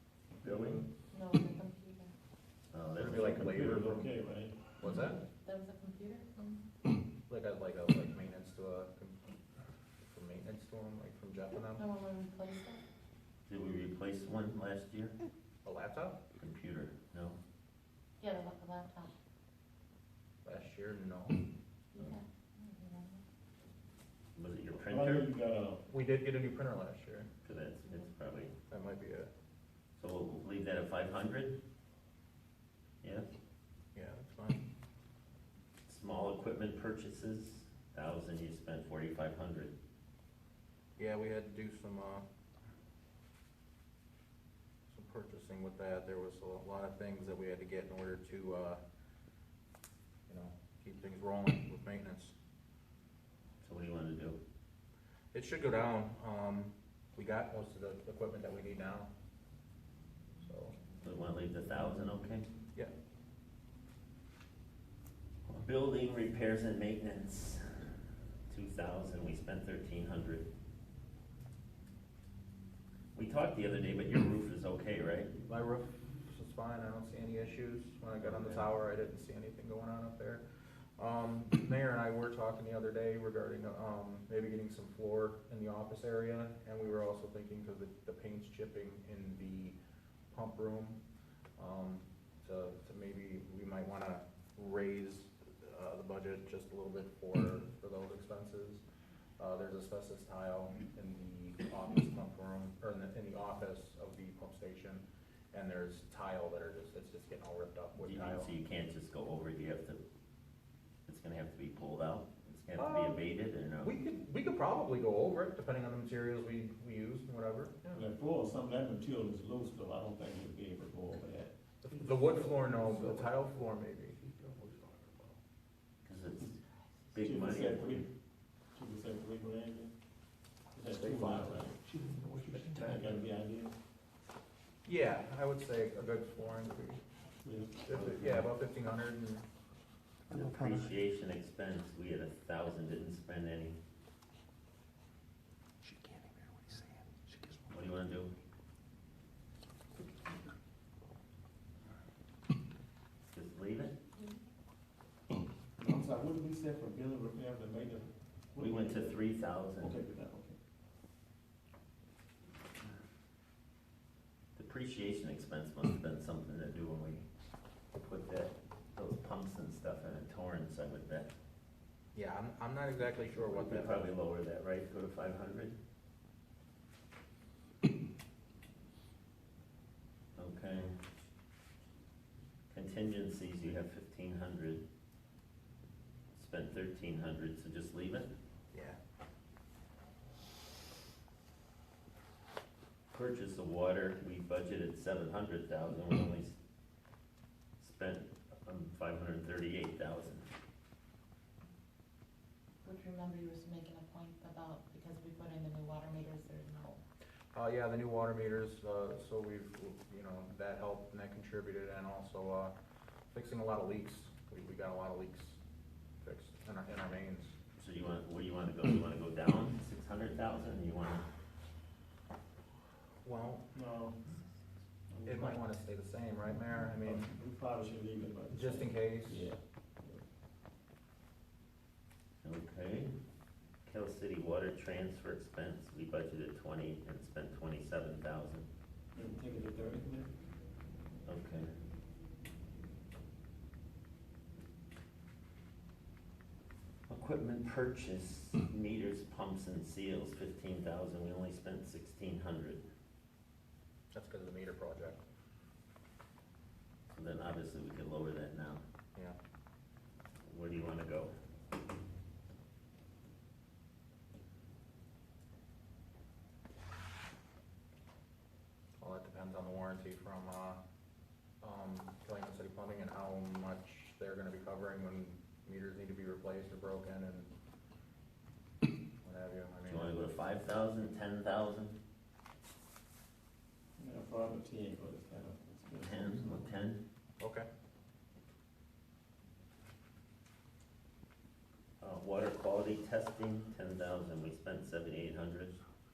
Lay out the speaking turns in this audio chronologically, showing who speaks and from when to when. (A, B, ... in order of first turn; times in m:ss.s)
0:00.3-0:00.8 A
0:00.4-0:00.8 B
0:00.5-0:00.7 C
0:01.1-0:02.1 D
0:02.7-0:03.8 B
0:03.0-0:04.1 C
0:03.1-0:04.6 A
0:04.8-0:05.2 C
0:05.0-0:06.7 D
0:07.3-0:09.2 C
0:10.0-0:11.8 C
0:11.8-0:12.8 D
0:13.5-0:15.2 B
0:15.6-0:16.2 C
0:16.4-0:17.4 B
0:18.2-0:19.1 D
0:20.4-0:21.4 C
0:21.9-0:23.2 D
0:24.4-0:25.3 B
0:24.8-0:25.8 A
0:25.9-0:27.3 C
0:27.4-0:28.5 B
0:28.7-0:29.3 C
0:30.0-0:31.6 B
0:33.0-0:33.3 B
0:33.9-0:34.6 C
0:35.9-0:39.7 B
0:41.0-0:42.2 C
0:44.9-0:48.8 C
0:50.3-0:52.3 C
0:53.6-0:54.4 B
0:55.3-0:59.1 C
1:00.4-1:00.8 C
1:01.0-1:02.4 B
1:05.5-1:07.6 B
1:08.5-1:10.5 B
1:13.1-1:15.4 B
1:15.5-1:20.4 C
1:18.2-1:18.6 B
1:21.0-1:29.8 C
1:30.3-1:31.0 C
1:31.6-1:38.8 C
1:39.4-1:48.5 C
1:48.0-1:50.0 B
1:51.1-1:53.9 B
1:52.8-1:53.2 C
1:53.8-1:58.0 C
1:57.9-2:01.5 A
2:01.9-2:03.2 E
2:01.9-2:04.2 C
2:04.2-2:05.3 E
2:06.0-2:06.6 B
2:07.1-2:08.1 B
2:07.2-2:08.1 A
2:08.7-2:09.9 A
2:10.7-2:11.8 A
2:10.9-2:11.7 C
2:11.8-2:13.2 E
2:12.6-2:13.7 A
2:14.8-2:17.0 C
2:17.4-2:17.9 A
2:17.8-2:19.4 C
2:17.9-2:18.4 B
2:20.3-2:20.8 E
2:20.3-2:23.8 B
2:25.8-2:27.6 E
2:27.7-2:28.3 B
2:33.2-2:33.9 B
2:35.8-2:39.2 A
2:38.6-2:40.0 B
2:39.8-2:40.6 A
2:44.6-2:47.2 B
2:48.0-2:51.3 B
2:52.1-2:54.1 C
2:53.5-2:55.7 B
3:00.4-3:00.9 B
3:02.7-3:04.8 B
3:06.3-3:08.3 B
3:08.7-3:09.0 C
3:13.1-3:16.6 B
3:17.8-3:20.5 B
3:22.8-3:27.0 D
3:27.5-3:32.7 C
3:33.3-3:35.6 C
3:36.2-3:37.5 C
3:37.8-3:41.2 B
3:43.2-3:43.6 C
3:43.7-3:44.2 A
3:45.1-3:45.6 A
3:45.2-3:47.3 C
3:47.0-3:50.2 A
3:48.5-3:49.5 C
3:52.4-3:53.1 B
3:53.8-3:58.6 B
3:59.1-4:00.3 A
4:01.2-4:01.7 B
4:07.1-4:12.8 B
4:14.1-4:15.2 C
4:17.1-4:18.8 B
4:20.4-4:21.3 B
4:29.0-4:30.8 C
4:31.6-4:37.5 C
4:39.2-4:40.2 C
4:39.9-4:42.0 B
4:44.0-4:46.6 A
4:46.0-4:47.0 B
4:47.4-4:47.7 C
4:52.0-4:55.8 B